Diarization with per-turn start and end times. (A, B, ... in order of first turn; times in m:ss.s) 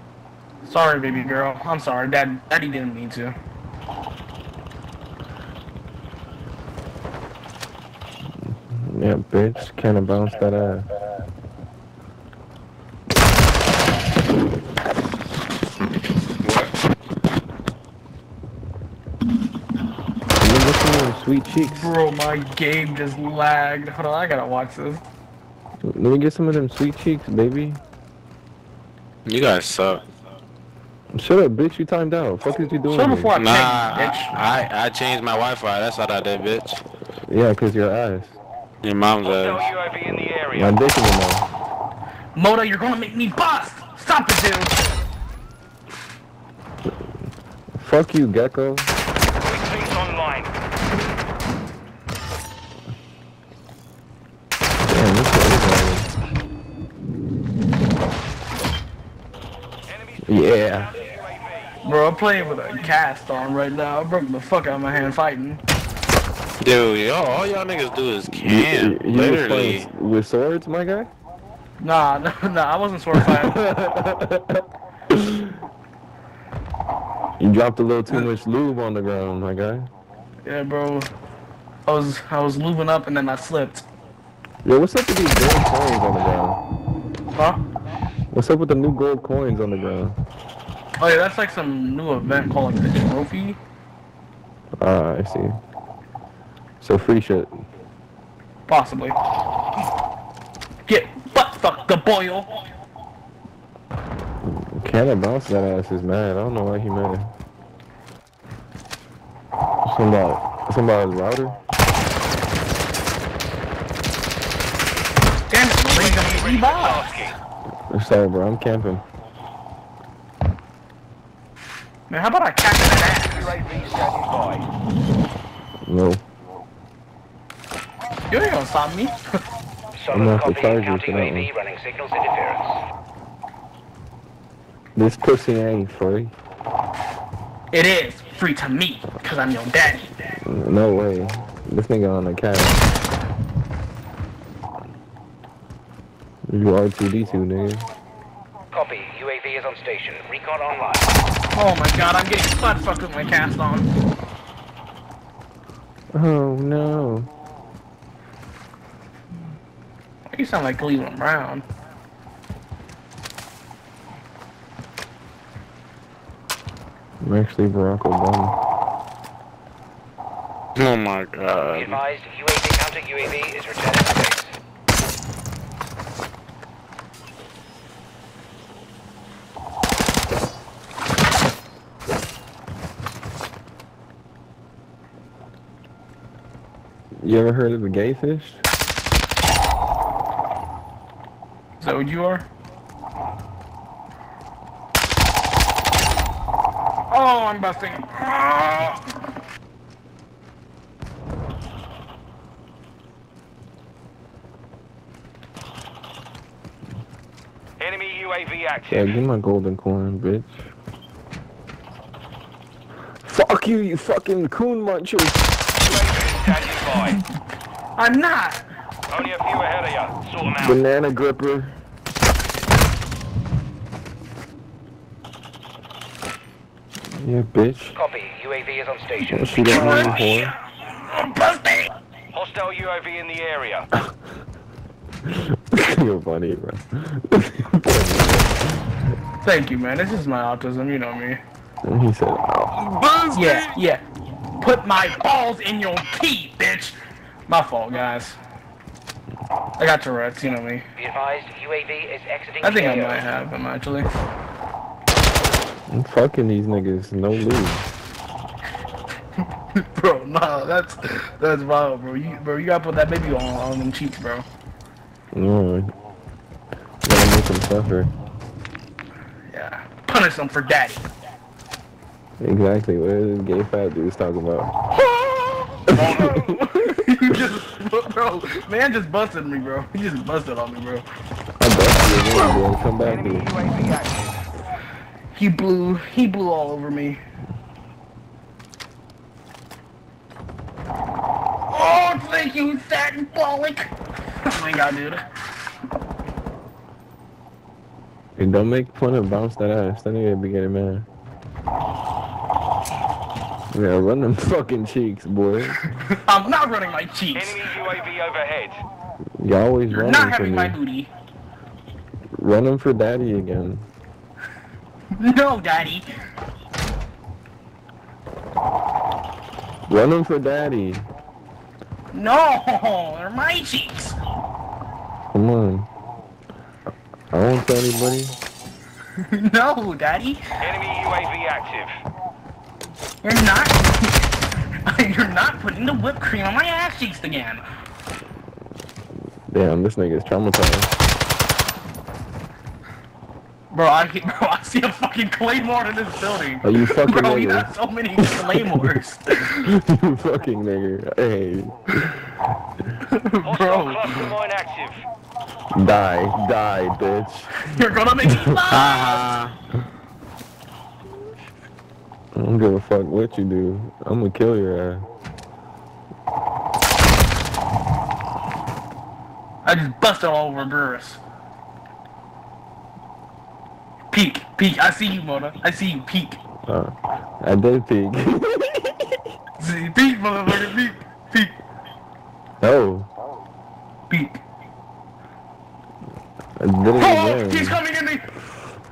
0:00.6-0:03.3 A
0:08.5-0:10.9 B
0:16.4-0:16.7 C
0:20.4-0:21.9 B
0:21.6-0:25.0 A
0:25.8-0:27.8 B
0:29.2-0:30.0 C
0:31.1-0:33.3 B
0:32.9-0:34.4 A
0:33.4-0:36.8 C
0:37.3-0:38.4 B
0:38.8-0:39.7 C
0:39.2-0:40.7 D
0:40.5-0:41.5 B
0:42.3-0:44.8 A
0:47.8-0:48.9 B
0:49.4-0:50.5 D
0:54.9-0:56.1 B
0:59.9-1:01.8 D
1:00.2-1:00.9 B
1:01.8-1:05.6 A
1:06.6-1:09.9 C
1:08.3-1:11.1 B
1:11.8-1:13.6 A
1:13.1-1:15.6 B
1:17.4-1:19.9 B
1:20.4-1:21.1 A
1:21.8-1:23.8 A
1:24.6-1:26.6 B
1:27.3-1:27.6 A
1:28.3-1:30.2 B
1:31.0-1:33.6 A
1:34.8-1:35.6 B
1:36.8-1:37.6 B
1:38.7-1:39.2 A
1:40.8-1:42.5 A
1:44.4-1:47.3 B
1:49.8-1:51.6 B
1:55.5-1:57.1 A
1:55.9-1:57.4 D
1:57.9-1:59.0 B
2:02.1-2:03.5 A
2:03.2-2:04.7 D
2:05.8-2:06.2 B
2:08.3-2:09.2 A
2:09.9-2:12.8 E
2:10.1-2:11.5 B
2:15.0-2:16.3 B
2:17.7-2:20.1 A
2:20.4-2:22.8 B
2:26.5-2:27.8 B
2:28.7-2:31.1 E
2:31.5-2:33.9 A
2:36.1-2:37.3 B
2:40.3-2:41.6 A
2:47.2-2:48.6 B
2:50.8-2:52.0 C
2:51.7-2:54.5 E
3:07.2-3:08.6 B
3:11.8-3:12.5 A
3:17.1-3:19.0 A
3:27.8-3:29.1 D
3:28.9-3:30.6 B
3:33.2-3:35.6 B
3:35.8-3:37.2 D
3:38.0-3:38.6 A
3:39.1-3:40.8 D
3:40.6-3:41.8 B
3:47.1-3:48.0 B
3:47.9-3:50.1 E
3:49.3-3:50.5 B
3:49.5-3:51.9 A
3:52.3-3:53.9 D
3:55.2-3:58.8 B
3:59.4-4:01.4 A
4:01.8-4:03.6 B
4:03.3-4:04.0 A
4:04.6-4:07.0 A
4:07.5-4:08.4 A
4:09.8-4:10.8 A
4:11.0-4:13.2 E
4:12.6-4:14.1 A
4:15.9-4:17.9 B
4:19.8-4:24.4 A
4:25.3-4:25.9 B
4:27.0-4:28.1 B
4:29.5-4:31.1 A
4:32.4-4:34.7 B
4:34.9-4:41.0 A
4:35.9-4:36.4 B
4:36.0-4:36.4 D
4:41.6-4:43.5 B
4:43.0-4:44.4 D
4:45.3-4:47.2 A
4:51.7-4:53.9 A
4:54.4-4:55.2 A
4:58.4-5:01.1 B
5:03.7-5:05.8 B
5:06.0-5:07.6 A
5:07.3-5:08.8 D
5:09.4-5:10.8 B
5:09.9-5:11.1 A
5:12.4-5:13.9 B
5:15.2-5:16.0 A
5:19.9-5:21.0 B
5:22.1-5:24.2 A
5:25.3-5:25.9 B
5:27.3-5:28.4 B
5:29.2-5:30.4 A
5:30.6-5:31.9 D
5:33.2-5:34.1 A
5:34.8-5:37.6 A
5:39.5-5:40.9 B
5:43.7-5:49.6 A
5:46.6-5:48.9 B
5:49.6-5:52.2 B
5:53.0-5:54.3 A
5:53.4-5:55.0 D
5:55.7-5:57.5 B
5:57.6-5:59.3 A
5:58.7-5:59.6 C
6:02.3-6:05.1 B
6:09.6-6:11.2 A
6:14.1-6:16.4 A
6:16.6-6:19.2 B
6:19.6-6:21.6 A
6:22.6-6:23.1 B
6:24.1-6:24.4 A
6:26.6-6:27.8 B
6:27.0-6:28.2 A